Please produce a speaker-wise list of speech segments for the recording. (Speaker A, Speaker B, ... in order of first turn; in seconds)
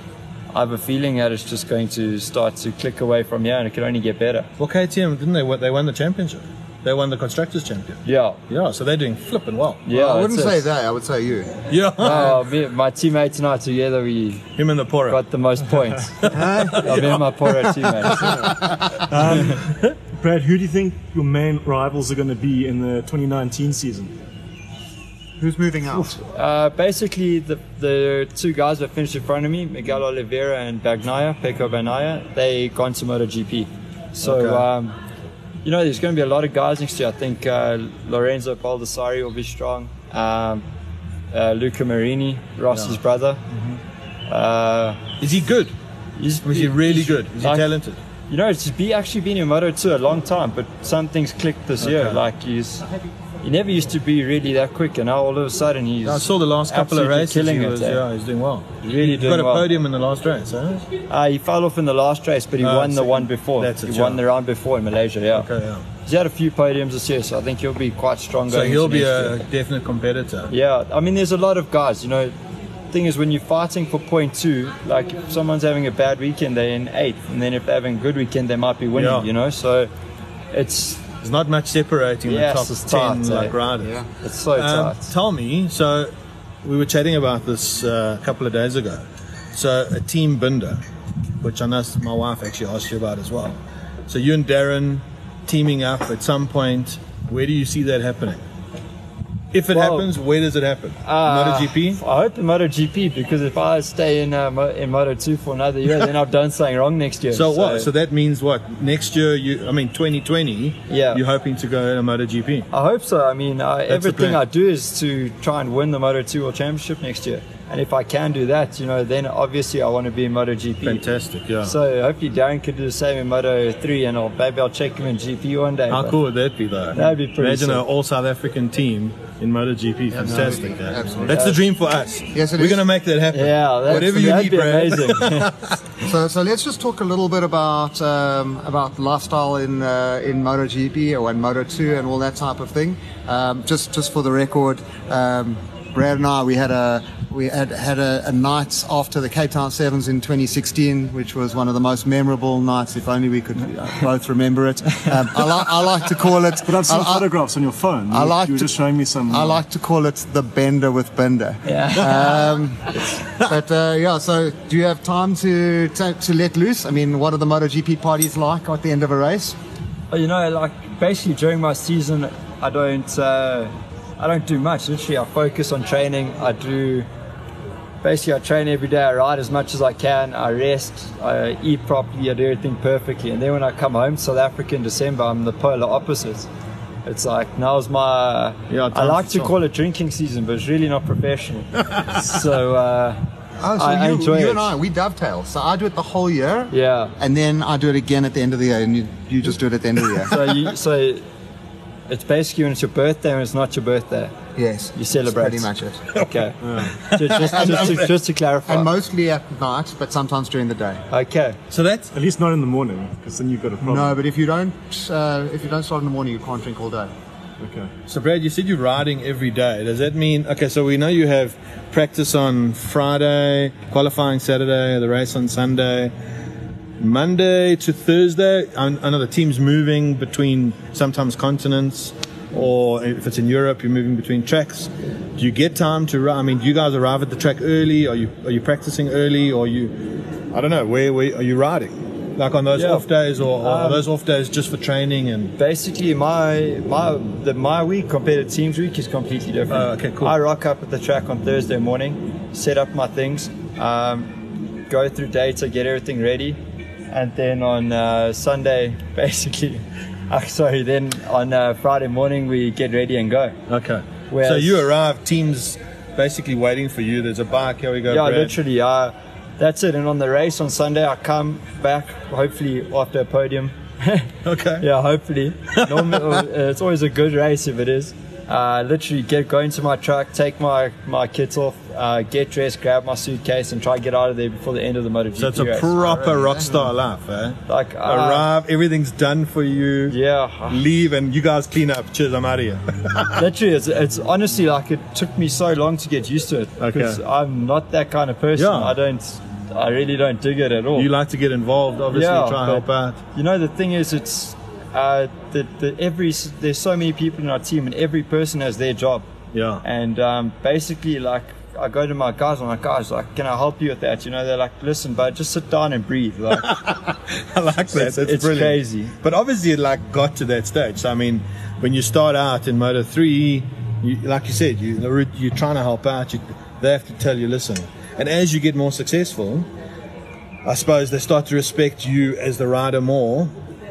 Speaker A: 0.5-4.5, 8.1-8.4, 9.8-10.7, 12.0-14.6, 15.1-18.4, 26.3-35.0, 35.6-40.6, 41.3-43.4, 44.3-45.1, 46.2-47.7, 48.3-52.9, 53.4-58.0, 58.8-59.7, 61.1-65.5, 66.0-69.4, 70.5-72.3, 72.9-79.9, 80.5-81.1, 82.3-83.6, 84.2-85.1, 99.7-100.1, 101.0-107.9, 110.9-111.2, 112.7-121.1, 121.6-126.2, 126.9-127.8, 131.3-131.6, 133.3-135.5, 161.7-162.3, 170.1-177.1, 178.0-186.5, 187.1-193.2, 193.8-194.7, 196.7-197.1, 200.2-201.2, 202.1-204.4, 204.9-208.9, 211.1-211.6, 242.7-243.1, 243.6-244.1, 245.6-256.6, 257.1-263.6, 264.3-264.9, 268.1-285.9, 287.7-288.5, 290.1-290.9, 293.3-301.1, 302.1-309.3, 309.8-316.7, 317.9-319.1
Speaker B: 4.6-9.9, 11.7-12.4, 14.6-15.2, 16.2-17.9, 19.3-19.8, 34.2-34.6, 42.7-43.0, 43.5-43.8, 45.2-45.7, 46.5-48.0, 51.8-52.2, 56.0-60.8, 62.6-64.2, 65.3-65.8, 68.5-70.5, 78.9-79.3, 81.2-84.0, 84.5-86.1, 86.6-90.8, 91.4-98.4, 99.5-102.0, 107.3-112.7, 113.9-114.4, 120.8-121.8, 125.9-135.8, 188.7-189.5, 206.6-208.1, 211.7-212.1, 218.1-226.1, 227.0-245.5, 249.7-250.3, 263.7-268.5, 274.4-274.9, 275.8-276.4, 285.4-290.2, 290.7-293.4, 296.8-297.2, 298.6-299.0, 300.9-303.2, 309.5-309.8, 316.7-329.7, 330.6-333.5
Speaker C: 9.9-12.3, 16.3-17.2, 18.2-19.1, 25.4-26.2, 83.8-84.1, 130.1-131.6, 132.3-132.9, 133.9-134.5, 136.0-157.3, 158.1-158.7, 159.3-169.6, 193.6-200.7, 204.6-206.0, 207.6-208.0, 208.7-211.0, 213.8-217.1, 286.0-286.9
Speaker D: 18.2-18.6, 19.1-24.1, 156.6-159.6, 212.1-214.2, 217.6-217.9